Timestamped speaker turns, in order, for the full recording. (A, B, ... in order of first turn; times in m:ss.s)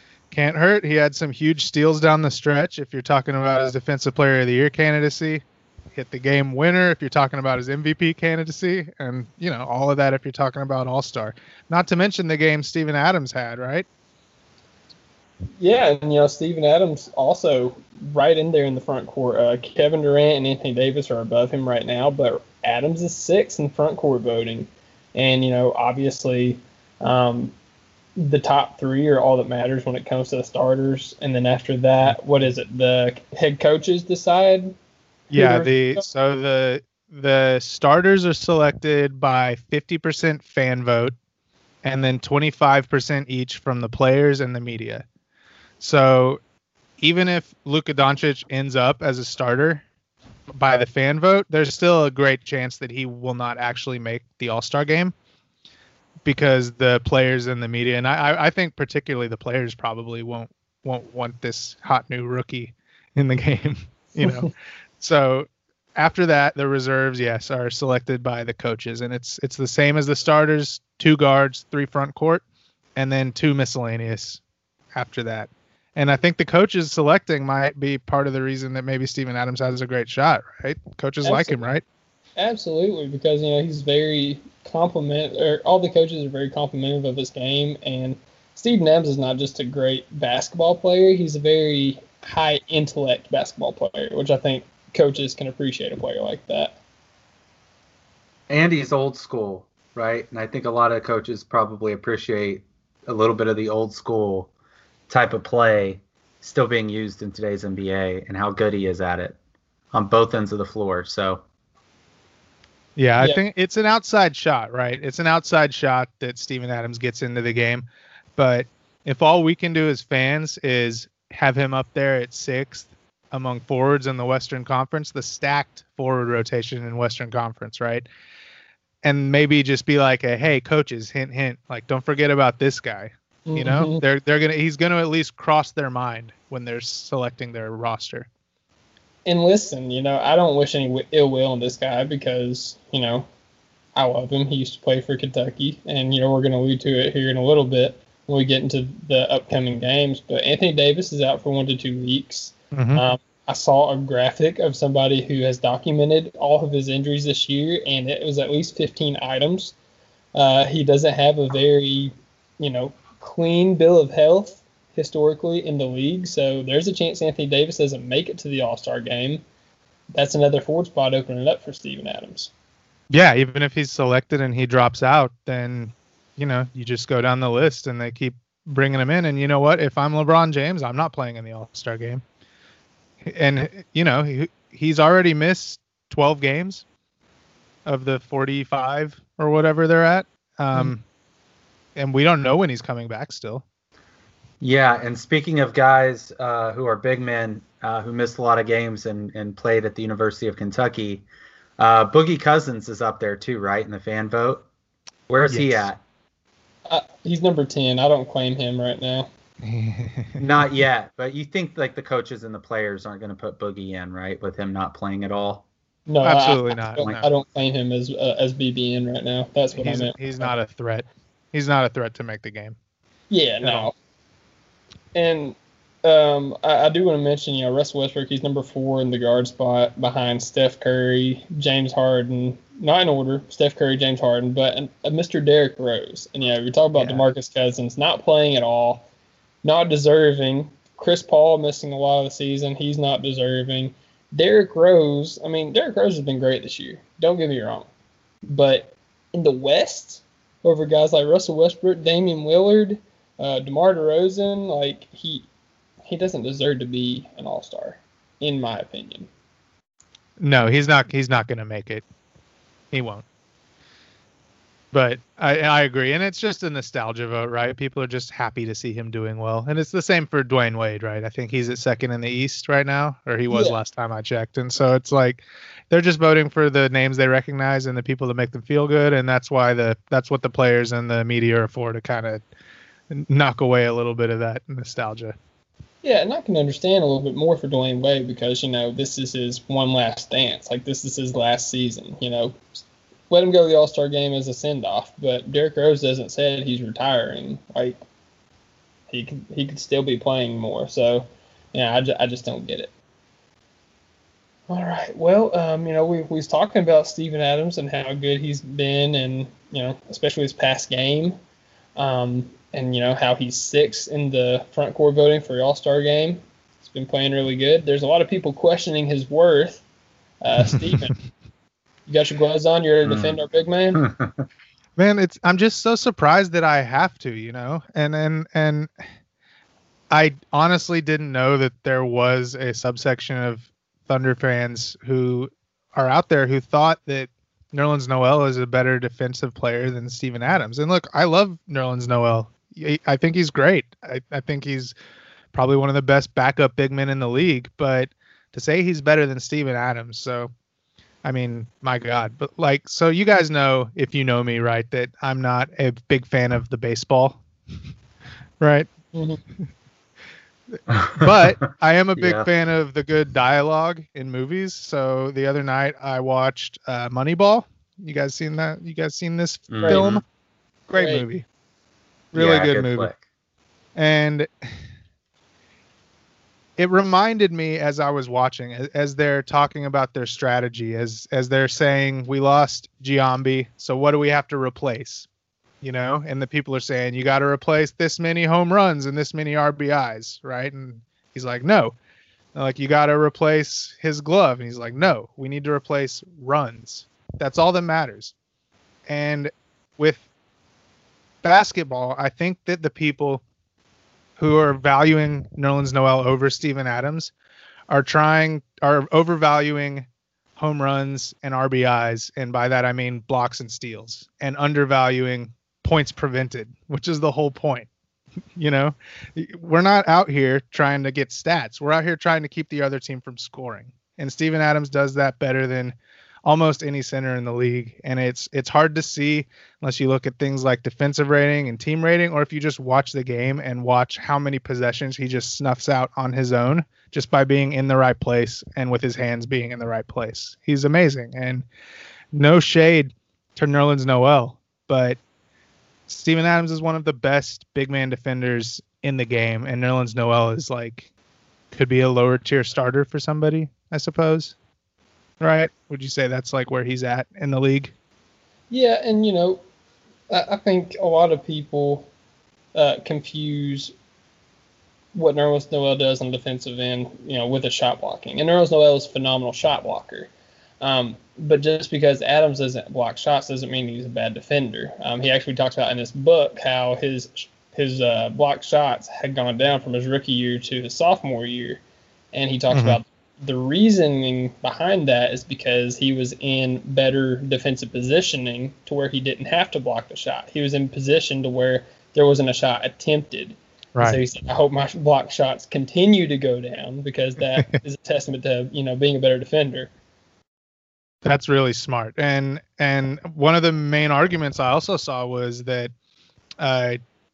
0:00.3-0:13.8 A
0:15.6-0:27.5 B
0:28.2-0:34.7 B
0:35.3-0:41.1 A
0:35.3-0:36.0 B
0:41.8-0:45.0 A
0:45.8-0:46.4 A
0:47.0-0:49.8 A
0:50.5-0:55.1 A
0:56.2-1:12.4 A
1:04.2-1:04.5 B
1:13.0-1:14.4 A
1:14.9-1:21.8 A
1:21.2-1:21.6 B
1:22.4-1:36.8 B
1:38.5-1:44.5 C
1:45.1-1:49.3 C
1:49.9-1:51.4 C
1:53.0-2:08.1 A
2:09.0-2:18.3 A
2:13.5-2:14.0 B
2:19.2-2:23.2 B
2:23.9-2:39.7 B
2:32.7-2:33.0 A
2:40.3-2:49.4 B
2:50.1-2:52.5 B
2:53.1-3:02.2 A
3:03.2-3:06.8 A
3:07.8-3:11.0 A
3:12.0-3:13.6 A
3:14.6-3:21.2 C
3:21.8-3:24.6 C
3:25.3-3:26.0 C
3:25.4-3:25.9 A
3:26.9-3:29.3 B
3:29.6-3:30.7 A
3:30.4-3:35.6 C
3:36.1-3:40.5 B
3:36.2-3:37.2 A
3:39.8-3:42.8 A
3:43.3-3:43.9 B
3:43.6-3:43.9 A
3:45.1-3:59.1 B
3:56.9-3:57.2 A
3:59.6-4:07.9 B
4:08.5-4:15.5 B
4:16.0-4:19.3 B
4:20.4-4:22.0 A
4:22.9-4:23.2 A
4:24.9-4:42.4 A
4:33.5-4:33.8 B
4:43.1-4:45.4 A
4:46.0-4:52.6 B
4:53.3-4:58.0 B
4:59.1-5:02.9 B
5:04.7-5:11.4 B
5:12.0-5:19.8 B
5:20.4-5:21.1 B
5:20.6-5:21.2 A
5:22.1-5:24.0 B
5:23.0-5:23.4 C
5:23.9-5:24.4 C
5:25.0-5:28.9 A
5:30.1-5:44.9 A
5:45.5-5:50.5 A
5:51.2-5:57.4 A
5:58.6-5:58.9 A
5:59.1-5:59.4 B
6:00.8-6:10.2 A
6:00.9-6:01.6 C
6:02.2-6:02.5 C
6:09.7-6:10.2 C
6:10.9-6:11.4 A
6:10.9-6:11.2 B
6:12.3-6:13.1 A
6:12.3-6:13.1 C
6:14.0-6:14.7 A
6:16.8-6:25.3 A
6:25.8-6:31.9 A
6:32.5-6:38.3 A
6:39.1-6:40.2 A
6:41.4-6:43.4 A
6:44.4-6:47.3 A
6:47.9-6:57.9 A
6:58.6-7:21.6 A
7:22.3-7:25.2 A
7:26.1-7:31.1 A
7:31.7-7:34.5 A
7:35.4-7:37.9 A
7:38.7-7:39.6 B
7:40.3-7:42.1 B
7:42.7-7:43.9 B
7:45.1-7:50.3 B
7:50.8-8:01.8 B
8:02.3-8:19.9 B
8:02.7-8:03.0 A
8:13.9-8:14.2 A
8:21.2-8:25.9 A
8:26.6-8:27.0 A